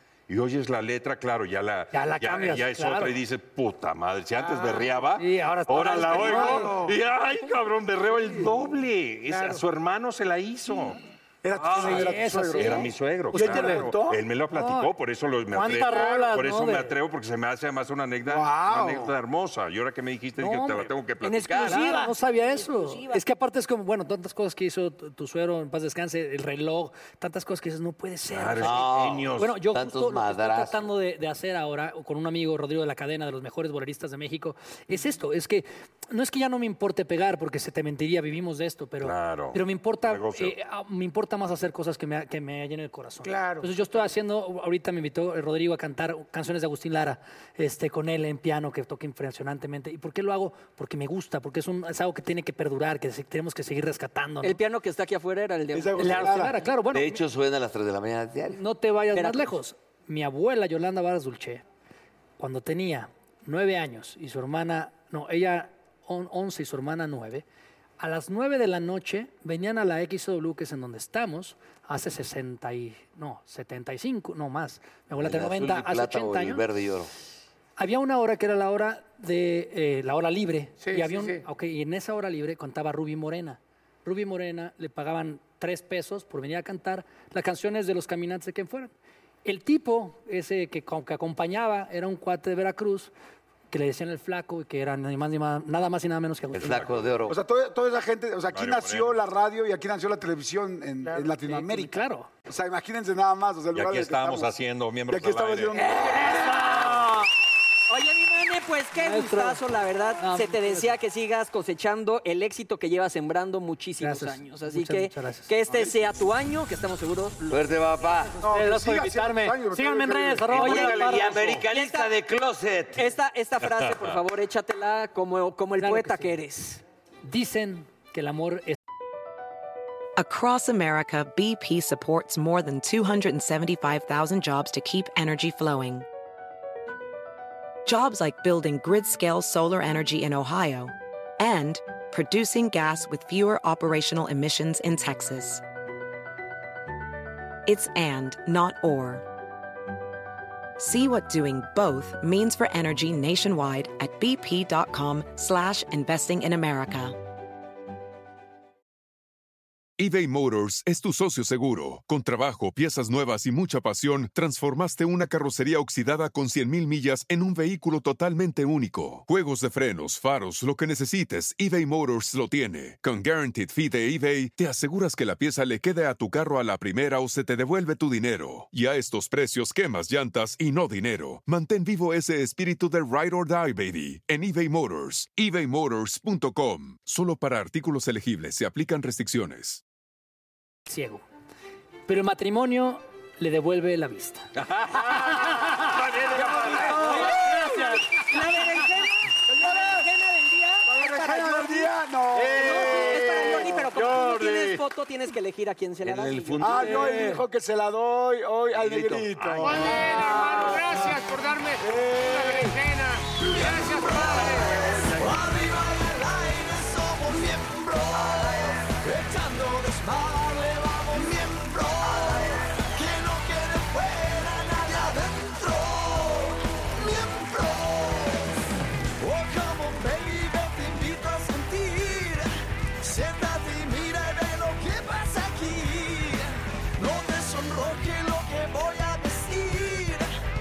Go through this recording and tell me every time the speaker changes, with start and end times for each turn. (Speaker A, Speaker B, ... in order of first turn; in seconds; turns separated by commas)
Speaker A: 0.3-11.0, Speaker B: 1.9-3.2, Speaker C: 4.3-5.0, Speaker B: 5.2-6.8, Speaker D: 5.8-7.0, Speaker D: 11.4-14.2, Speaker A: 11.5-21.9, Speaker B: 11.7-13.9, Speaker B: 14.5-14.9, Speaker B: 15.5-16.9, Speaker C: 15.8-16.4, Speaker D: 18.2-19.1, Speaker B: 20.4-20.9, Speaker E: 21.2-23.2, Speaker B: 21.4-54.6, Speaker F: 21.5-21.8, Speaker A: 28.3-29.5, Speaker F: 28.6-30.8, Speaker A: 39.0-40.5, Speaker C: 43.2-43.7, Speaker E: 54.4-56.5, Speaker D: 55.7-56.6, Speaker B: 56.0-57.2, Speaker F: 56.9-58.6, Speaker B: 58.5-61.6, Speaker E: 59.1-59.5, Speaker B: 62.4-67.4, Speaker B: 68.0-76.6, Speaker F: 75.2-77.1, Speaker B: 77.8-88.9, Speaker C: 80.8-81.4, Speaker B: 89.4-93.1, Speaker B: 93.7-96.8, Speaker F: 96.5-97.3, Speaker A: 96.6-96.9, Speaker D: 97.3-104.5, Speaker A: 98.5-99.2, Speaker C: 101.0-101.3, Speaker B: 101.4-102.3, Speaker A: 103.7-105.8, Speaker D: 105.1-106.8, Speaker E: 105.7-107.3, Speaker E: 107.9-117.6, Speaker B: 108.9-109.6, Speaker B: 110.2-111.0, Speaker B: 114.0-115.9, Speaker F: 117.5-118.4, Speaker B: 118.4-121.6, Speaker D: 118.4-121.3, Speaker F: 120.5-123.1, Speaker E: 120.5-122.1, Speaker E: 123.0-126.8, Speaker A: 123.6-124.0, Speaker B: 125.8-126.4, Speaker B: 127.2-128.8, Speaker G: 130.2-136.1, Speaker G: 137.8-145.6, Speaker G: 147.7-149.2, Speaker G: 150.8-157.2, Speaker H: 160.0-189.8, Speaker B: 190.9-191.2, Speaker B: 192.1-194.5, Speaker A: 194.6-197.3, Speaker B: 195.2-195.9, Speaker E: 196.5-201.9, Speaker B: 196.6-197.1, Speaker D: 196.7-197.9, Speaker B: 197.6-198.0, Speaker D: 200.9-203.6, Speaker A: 202.3-204.8, Speaker E: 202.5-207.3, Speaker F: 206.0-207.2, Speaker D: 206.6-210.0, Speaker B: 206.9-207.3, Speaker F: 208.7-209.8, Speaker C: 209.6-214.8, Speaker E: 210.2-210.8, Speaker D: 211.8-212.8, Speaker I: 213.3-228.6, Speaker I: 229.2-232.5, Speaker I: 233.0-240.3